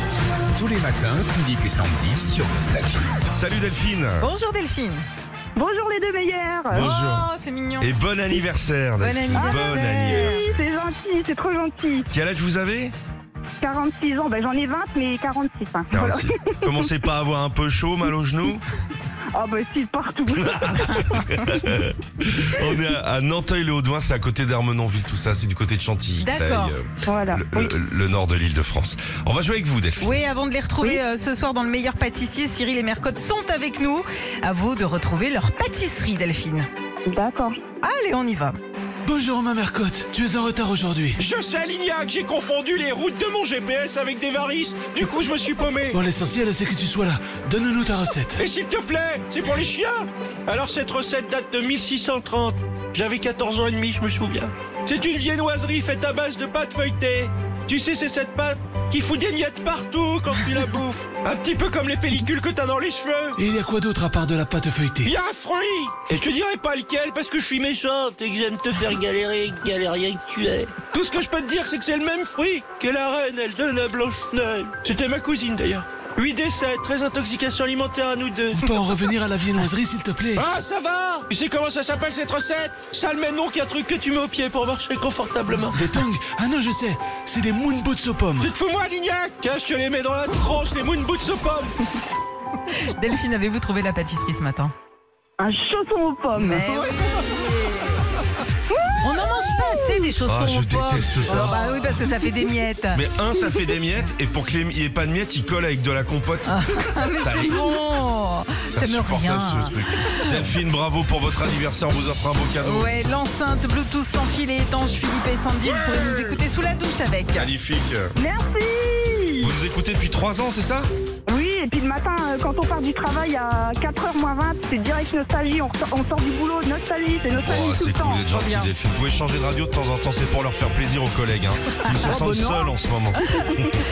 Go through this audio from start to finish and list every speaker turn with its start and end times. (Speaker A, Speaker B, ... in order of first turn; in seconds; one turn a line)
Speaker A: 0.5-3.1
Speaker B: 3.3-4.3
Speaker C: 4.2-5.0
Speaker D: 5.5-6.9
Speaker B: 6.7-10.4
Speaker C: 6.7-7.9
Speaker C: 9.0-10.4
Speaker D: 9.3-12.1
Speaker B: 12.1-12.9
Speaker D: 13.6-16.9
Speaker B: 15.9-18.6
Speaker D: 19.3-21.2
Speaker B: 20.3-30.2
Speaker C: 26.2-26.8
Speaker D: 27.0-27.7
Speaker C: 30.0-36.7
Speaker D: 37.1-37.6
Speaker C: 37.8-38.5
Speaker E: 39.0-41.2
Speaker F: 41.2-46.0
Speaker E: 45.9-48.4
Speaker F: 48.4-63.4
Speaker E: 63.4-65.1
Speaker F: 65.0-78.7
Speaker E: 78.5-80.5
Speaker F: 80.3-86.0
Speaker E: 85.6-88.5
Speaker F: 88.4-91.8
Speaker C: 92.8-94.7
Speaker D: 95.4-96.7
Speaker C: 96.3-98.0
Speaker C: 98.8-103.0
Speaker B: 100.2-102.1
Speaker B: 102.9-107.8
Speaker C: 106.5-110.4
Speaker B: 108.7-112.9
Speaker C: 112.6-117.5
Speaker B: 115.6-116.4
Speaker B: 117.3-118.1
Speaker D: 118.2-119.5
Speaker B: 119.4-120.9
Speaker D: 121.3-128.4
Speaker B: 127.3-133.2
Speaker C: 128.3-128.7
Speaker D: 132.0-133.7